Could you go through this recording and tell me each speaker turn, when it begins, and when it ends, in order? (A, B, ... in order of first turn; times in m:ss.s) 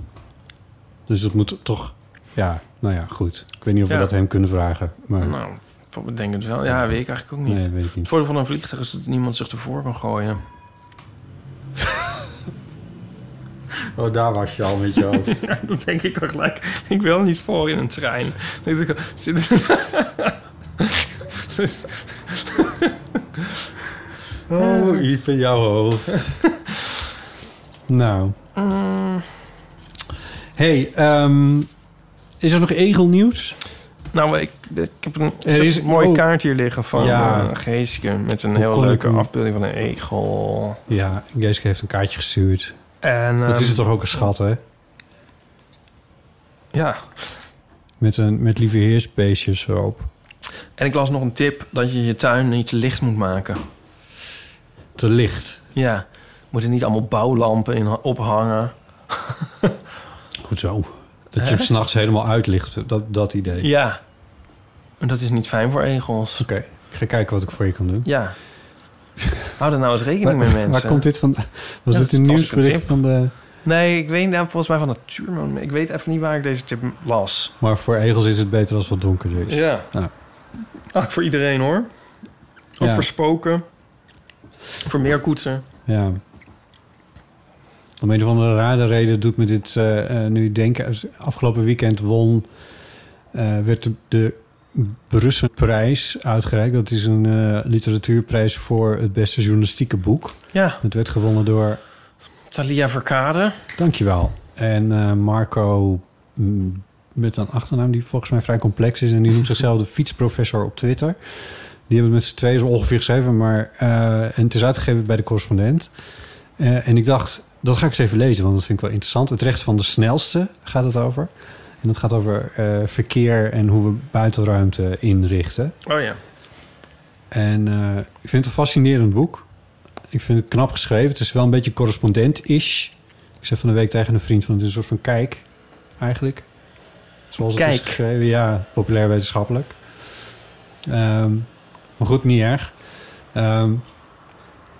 0:01.1-0:05.4 A
0:05.2-0:10.4 B
0:07.4-0:08.1 A
0:13.9-0:15.4 A
0:15.2-0:23.6 B
0:24.5-0:26.4 A
0:24.6-0:25.0 B
0:27.9-0:28.4 A
0:28.6-0:29.3 B
0:30.6-0:31.7 A
0:32.4-0:33.6 A
0:34.1-0:40.8 B
0:35.4-0:36.3 A
0:36.9-0:37.6 A
0:38.6-0:39.3 A
0:40.9-0:42.8 A
0:43.0-0:43.8 B
0:43.4-0:44.6 A
0:46.7-0:47.1 B
0:48.0-0:50.1 A
0:50.8-0:53.6 B
0:55.0-0:55.6 A
0:55.8-0:59.7 B
1:00.4-1:03.7 A
1:01.4-1:01.7 B
1:03.6-1:04.0 B
1:05.0-1:06.5 B
1:06.4-1:08.1 A
1:08.0-1:08.4 B
1:09.2-1:09.5 A
1:09.6-1:11.0 B
1:10.2-1:13.3 A
1:11.9-1:13.0 B
1:13.6-1:17.5 B
1:17.6-1:20.1 A
1:19.5-1:19.9 B
1:20.9-1:21.9 B
1:22.8-1:23.6 B
1:22.8-1:23.1 A
1:24.8-1:25.6 B
1:25.9-1:26.2 A
1:28.0-1:32.5 A
1:33.3-1:41.8 A
1:40.5-1:40.8 B
1:42.5-1:43.6 B
1:43.8-1:51.2 A
1:51.9-1:55.9 A
1:56.6-2:01.3 A
2:01.8-2:05.8 A
2:05.9-2:06.2 B
2:07.3-2:09.5 A
2:10.1-2:15.5 A
2:16.0-2:16.5 A
2:17.3-2:19.8 A
2:17.5-2:18.0 B
2:20.9-2:22.8 A
2:23.3-2:23.8 A